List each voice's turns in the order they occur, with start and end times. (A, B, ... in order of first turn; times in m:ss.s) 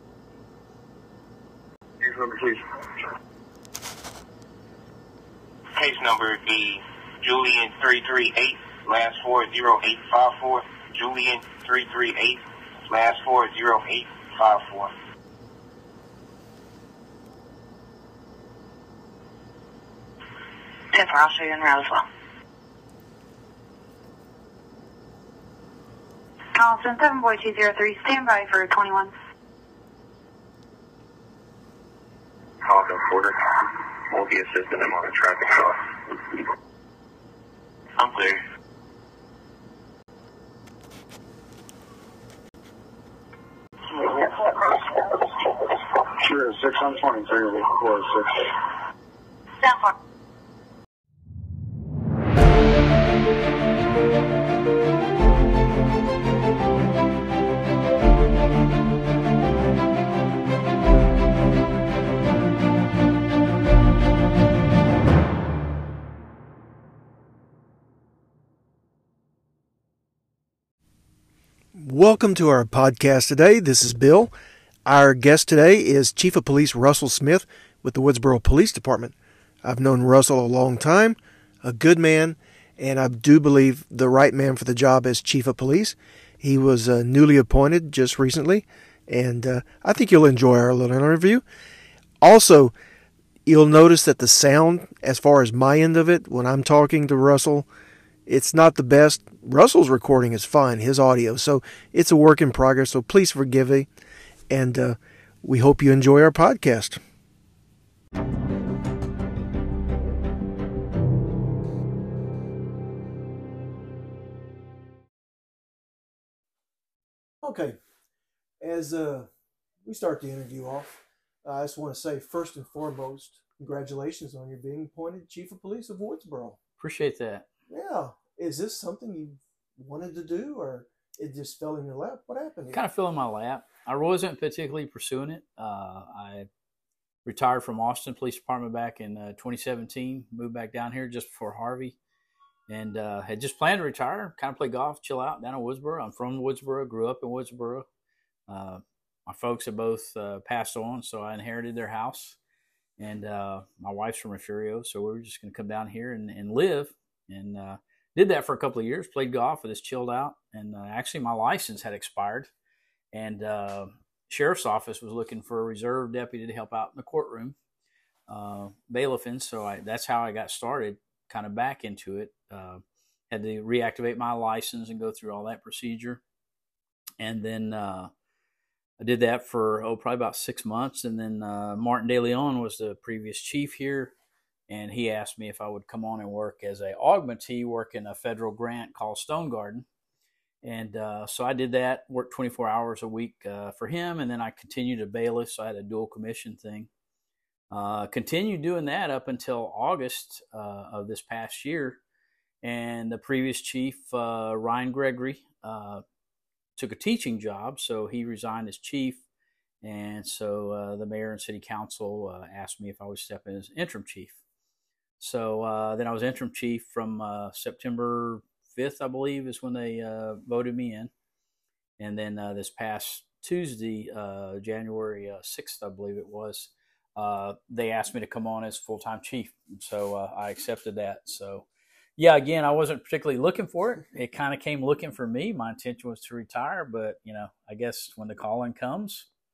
0:02.0-0:02.9 A
0:05.8-0:14.9 B
0:20.9-0:22.0 C
0:26.6-0:29.1 C
0:32.6-0:36.4 A
0:38.0-0:38.4 B
0:43.9-0:48.6 A
0:49.6-0:50.0 C
1:11.8-1:14.3 D
1:14.9-1:31.4 D
1:32.2-1:32.7 D
1:33.5-1:37.7 D
1:38.3-1:43.9 D
1:44.5-1:47.0 D
1:57.4-1:57.8 D
1:58.6-1:59.3 D
1:59.8-2:06.6 D
2:06.8-2:07.5 E
2:07.7-2:12.8 D
2:12.7-2:16.5 E
2:17.2-2:22.0 E
2:22.7-2:27.9 E
2:28.5-2:32.4 E
2:33.0-2:42.5 E
2:43.1-2:47.6 E
2:48.3-2:56.2 E
2:57.2-2:58.1 E
2:59.0-3:04.1 E
3:04.7-3:09.9 E
3:10.6-3:16.9 E
3:17.7-3:22.0 E
3:22.6-3:26.0 E
3:26.8-3:29.2 E
3:29.8-3:34.4 E
3:35.2-3:41.1 E
3:42.0-3:59.3 E